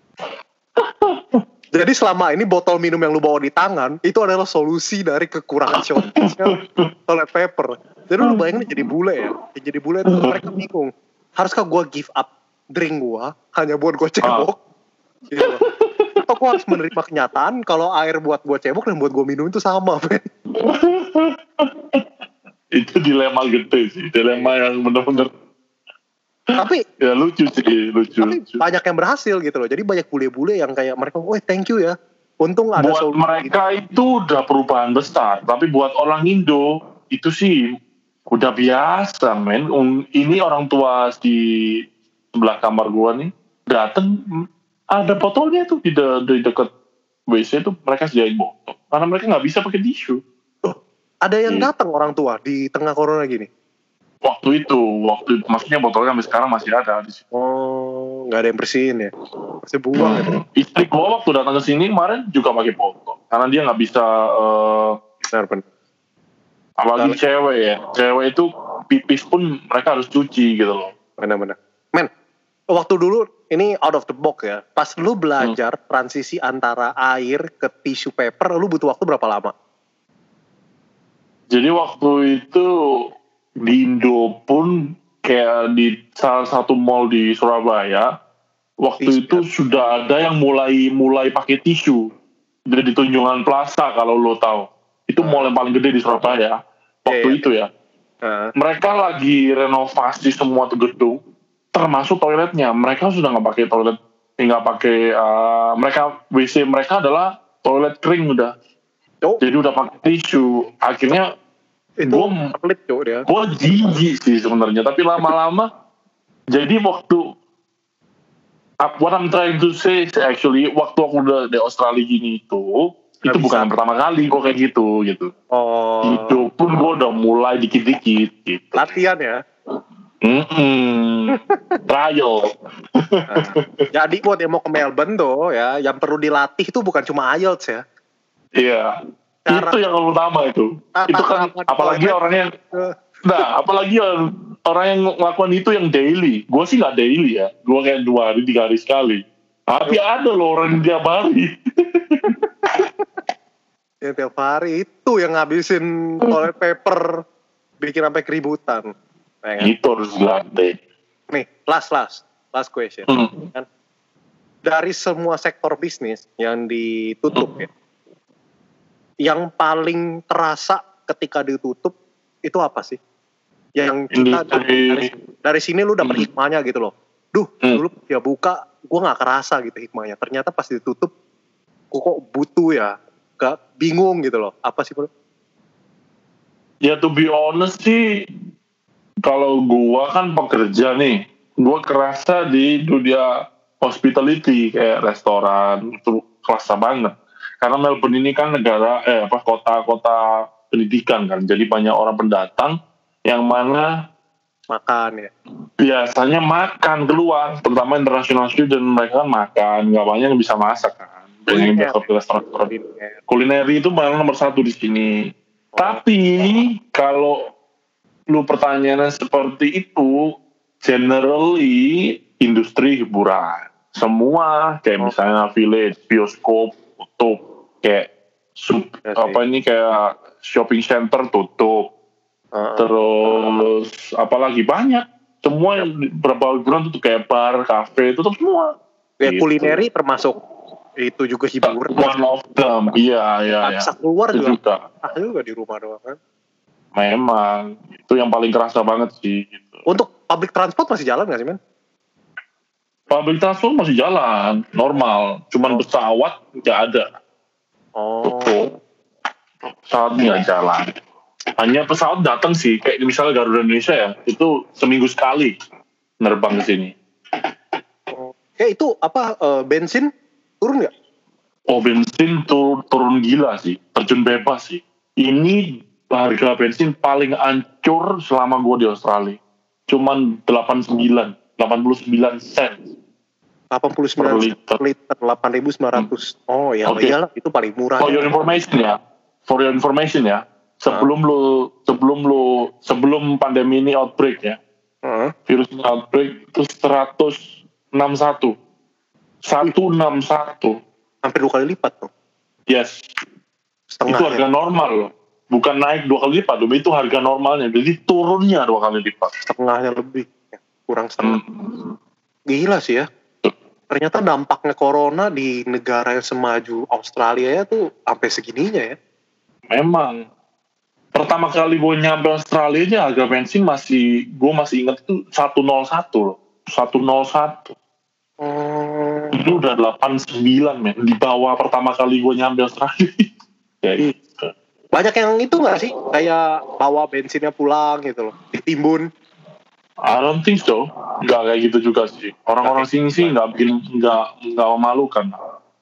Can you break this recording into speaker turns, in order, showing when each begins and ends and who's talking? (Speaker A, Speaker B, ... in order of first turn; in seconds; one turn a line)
Speaker A: 0.8-1.4
Speaker B: 1.7-14.6
Speaker A: 5.8-6.9
Speaker A: 8.2-8.6
Speaker A: 10.1-10.3
Speaker B: 15.3-15.6
Speaker A: 15.4-16.6
Speaker B: 16.2-20.3
Speaker A: 20.6-22.0
Speaker A: 22.7-25.3
Speaker A: 26.5-28.6
Speaker B: 26.6-26.8
Speaker B: 28.2-33.5
Speaker A: 32.8-37.6
Speaker A: 38.3-41.8
Speaker A: 42.3-46.7
Speaker A: 47.3-50.2
Speaker B: 50.6-53.5
Speaker A: 54.2-57.2
Speaker B: 57.3-59.1
Speaker B: 59.6-60.3
Speaker A: 60.0-65.0
Speaker B: 65.3-65.7
Speaker A: 66.8-70.9
Speaker B: 71.2-72.1
Speaker B: 72.7-79.5
Speaker A: 81.5-83.0
Speaker A: 83.6-88.1
Speaker A: 88.8-92.1
Speaker B: 89.0-89.5
Speaker A: 92.7-97.7
Speaker B: 95.2-95.5
Speaker B: 97.1-97.4
Speaker B: 98.2-98.5
Speaker A: 98.5-101.2
Speaker A: 101.7-108.5
Speaker A: 109.4-111.3
Speaker B: 112.0-113.3
Speaker A: 112.1-112.4
Speaker A: 113.2-115.7
Speaker A: 116.5-117.2
Speaker A: 118.8-125.3
Speaker B: 123.3-123.8
Speaker B: 125.5-126.4
Speaker A: 126.0-128.9
Speaker B: 128.8-129.4
Speaker A: 130.2-133.8
Speaker B: 131.3-131.8
Speaker B: 133.3-137.8
Speaker A: 138.6-138.9
Speaker B: 139.5-139.8
Speaker A: 139.5-142.5
Speaker B: 141.0-142.9
Speaker A: 143.2-152.3
Speaker B: 154.0-157.2
Speaker B: 157.8-158.9
Speaker B: 159.4-159.7
Speaker A: 159.6-160.8
Speaker B: 161.3-163.7
Speaker A: 163.1-163.4
Speaker B: 164.6-167.7
Speaker B: 169.2-173.0
Speaker B: 173.8-181.1
Speaker A: 174.1-175.1
Speaker B: 181.9-185.1
Speaker A: 186.8-188.0
Speaker A: 189.2-193.3
Speaker A: 193.8-202.8
Speaker A: 203.3-203.9
Speaker B: 204.7-205.3
Speaker A: 205.8-212.7
Speaker B: 211.5-213.2
Speaker A: 213.3-217.5
Speaker B: 215.7-216.0
Speaker A: 218.3-231.9
Speaker B: 229.1-229.4
Speaker B: 232.5-232.9
Speaker A: 232.8-238.7
Speaker B: 239.2-240.4
Speaker A: 239.2-239.8
Speaker B: 241.0-242.2
Speaker A: 241.6-244.8
Speaker B: 243.6-246.2
Speaker A: 246.9-249.8
Speaker B: 249.9-251.6
Speaker A: 253.1-257.1
Speaker B: 258.0-258.5
Speaker A: 258.2-258.7
Speaker A: 259.6-260.9
Speaker A: 261.6-265.5
Speaker A: 266.2-266.9
Speaker B: 268.1-270.1
Speaker B: 270.6-270.9
Speaker A: 271.7-282.9
Speaker B: 283.7-288.3
Speaker A: 284.2-284.8
Speaker A: 286.9-287.2
Speaker A: 288.0-294.6
Speaker B: 295.1-295.3
Speaker A: 295.5-298.5
Speaker A: 299.4-300.8
Speaker B: 301.2-302.1
Speaker A: 302.7-303.0
Speaker B: 304.0-304.4
Speaker A: 304.1-309.3
Speaker B: 309.5-311.4
Speaker A: 311.2-311.8
Speaker B: 312.5-313.1
Speaker B: 313.9-318.9
Speaker A: 319.7-320.2
Speaker A: 321.1-327.7
Speaker B: 328.4-329.4
Speaker A: 329.3-333.3
Speaker A: 333.8-334.5
Speaker B: 334.9-339.0
Speaker A: 340.0-345.4
Speaker B: 342.6-343.4